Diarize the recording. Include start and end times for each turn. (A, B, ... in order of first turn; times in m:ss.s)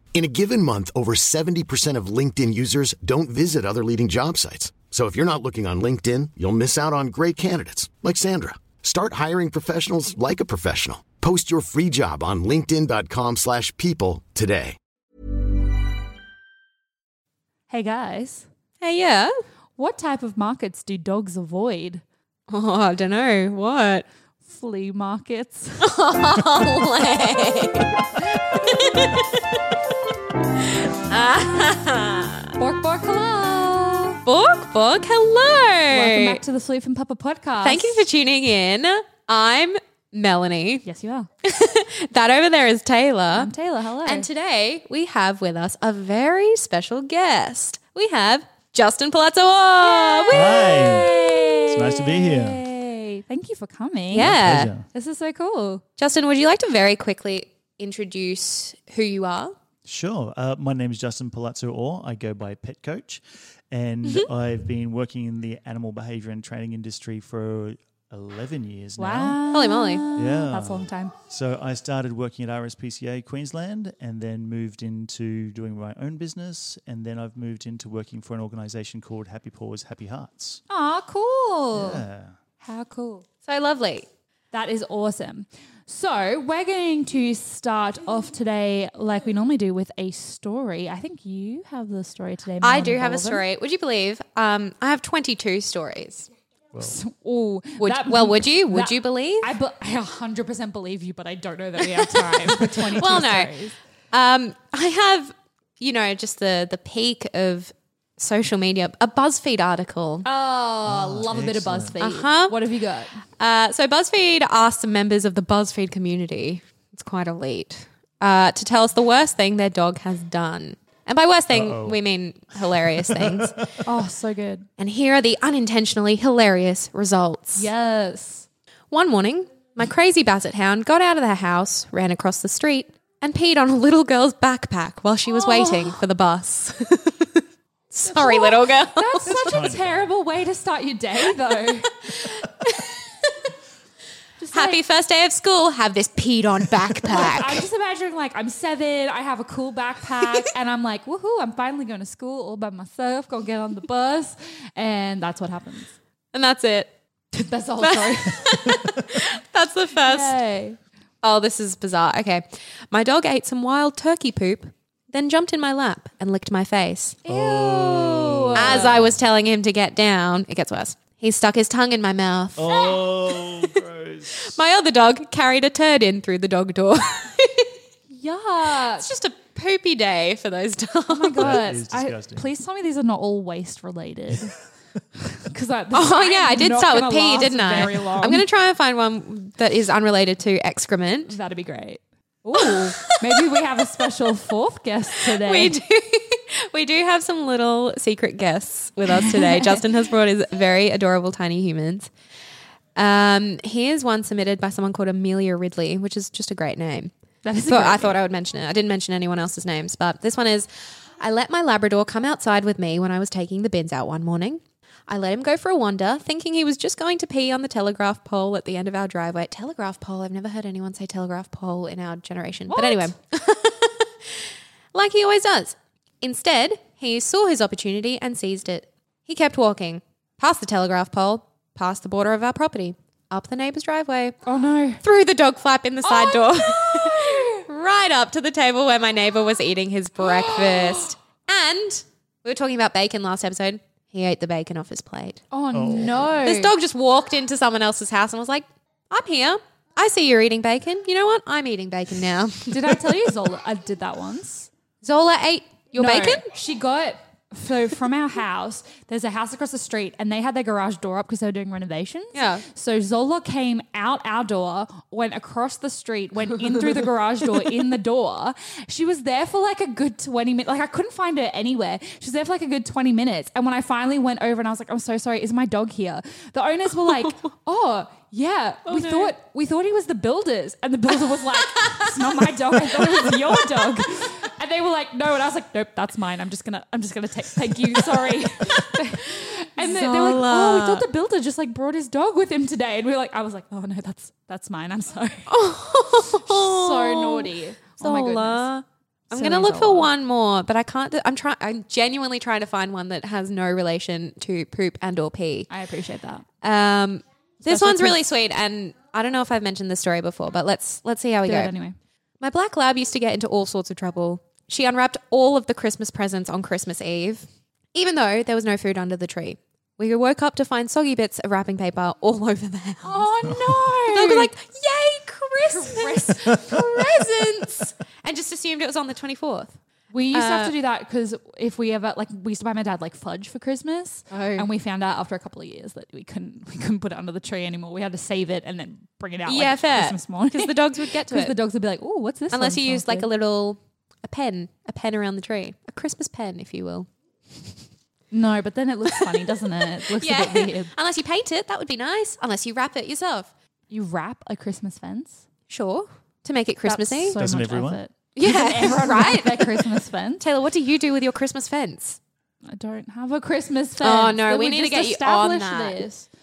0:00.1-0:14.8 A
0:17.7-0:18.4 B
0:18.8-0:19.4 C
0:19.8-0:22.0 B
0:22.5-0:24.0 C
0:24.5-0:25.9 B
0:25.8-0:29.4 C
0:30.6-0:32.5 C
0:32.6-0:34.2 B
0:34.2-0:36.4 C
0:35.9-0:38.0 B
0:37.6-0:40.8 C
0:40.8-0:41.3 B
0:41.4-0:43.5 C
0:43.3-0:44.3 B
0:44.0-0:51.8 C
0:49.8-0:55.8 B
0:50.3-0:51.1 D
0:51.7-0:52.6 D
0:54.1-0:54.7 C
0:54.1-0:54.8 D
0:56.0-0:59.6 C
0:59.8-1:09.4 D
1:09.0-1:11.1 B
1:09.5-1:10.0 C
1:10.1-1:20.6 D
1:20.7-1:22.1 B
1:21.7-1:22.4 D
1:22.6-1:23.2 B
1:23.4-1:24.1 C
1:24.5-1:33.4 B
1:32.6-1:36.3 C
1:36.7-1:37.0 D
1:36.8-1:43.8 B
1:37.8-1:39.5 C
1:41.8-1:43.5 C
1:44.1-1:50.2 C
1:50.2-1:53.2 B
1:50.9-1:52.0 D
1:52.0-1:52.6 C
1:53.4-2:03.6 C
2:01.5-2:02.0 D
2:03.0-2:03.8 D
2:03.8-2:04.7 B
2:04.8-2:07.7 C
2:07.6-2:08.5 B
2:08.9-2:19.6 C
2:15.3-2:16.0 B
2:18.0-2:21.9 B
2:19.2-2:20.1 D
2:22.1-2:23.3 C
2:24.4-2:24.8 B
2:24.5-2:27.7 C
2:27.0-2:35.9 B
2:36.3-2:36.9 C
2:37.3-2:38.5 B
2:37.8-2:40.4 C
2:40.0-2:40.8 B
2:41.2-2:47.4 C
2:47.3-2:49.2 D
2:47.3-2:49.0 B
2:48.5-2:53.6 C
2:52.6-2:54.6 D
2:54.4-2:57.7 C
2:58.1-2:59.1 B
2:58.9-3:01.6 C
3:01.1-3:04.5 B
3:01.4-3:02.5 D
3:05.3-3:08.4 B
3:05.9-3:11.4 C
3:11.3-3:15.8 B
3:12.6-3:13.8 C
3:15.3-3:22.1 C
3:19.1-3:19.8 B
3:22.9-3:27.1 C
3:27.4-3:28.2 B
3:27.7-3:54.4 C
3:42.7-3:43.1 B
3:54.4-3:55.0 B
3:55.0-4:05.4 C
3:56.0-3:57.6 B
4:00.2-4:01.1 B
4:05.5-4:06.7 B
4:05.7-4:06.4 D
4:06.3-4:13.0 C
4:12.7-4:14.7 B
4:15.0-4:16.4 C
4:15.9-4:55.6 B
4:22.3-4:22.6 C
4:37.0-4:37.5 C
4:38.9-4:39.3 C
4:41.8-4:43.9 C
4:48.8-4:51.1 C
4:55.5-5:05.7 C
4:56.4-4:58.7 B
4:59.3-5:00.1 B
5:05.7-5:06.4 B
5:06.6-5:11.7 C
5:07.6-5:08.2 B
5:11.4-5:12.0 B
5:12.4-5:23.5 C
5:23.0-5:24.5 B
5:23.5-5:23.8 D
5:24.0-5:29.8 C
5:25.7-5:27.6 B
5:30.1-5:43.3 B
5:30.3-5:30.8 C
5:34.3-5:34.7 C
5:39.5-5:41.6 C
5:42.5-5:47.7 C
5:48.3-5:50.9 B
5:49.1-5:53.5 C
5:53.9-5:55.4 B
5:55.7-5:57.4 C
5:56.8-6:00.4 B
5:57.3-5:58.0 D
5:58.4-6:02.2 C
6:02.7-6:06.3 B
6:04.0-6:06.0 C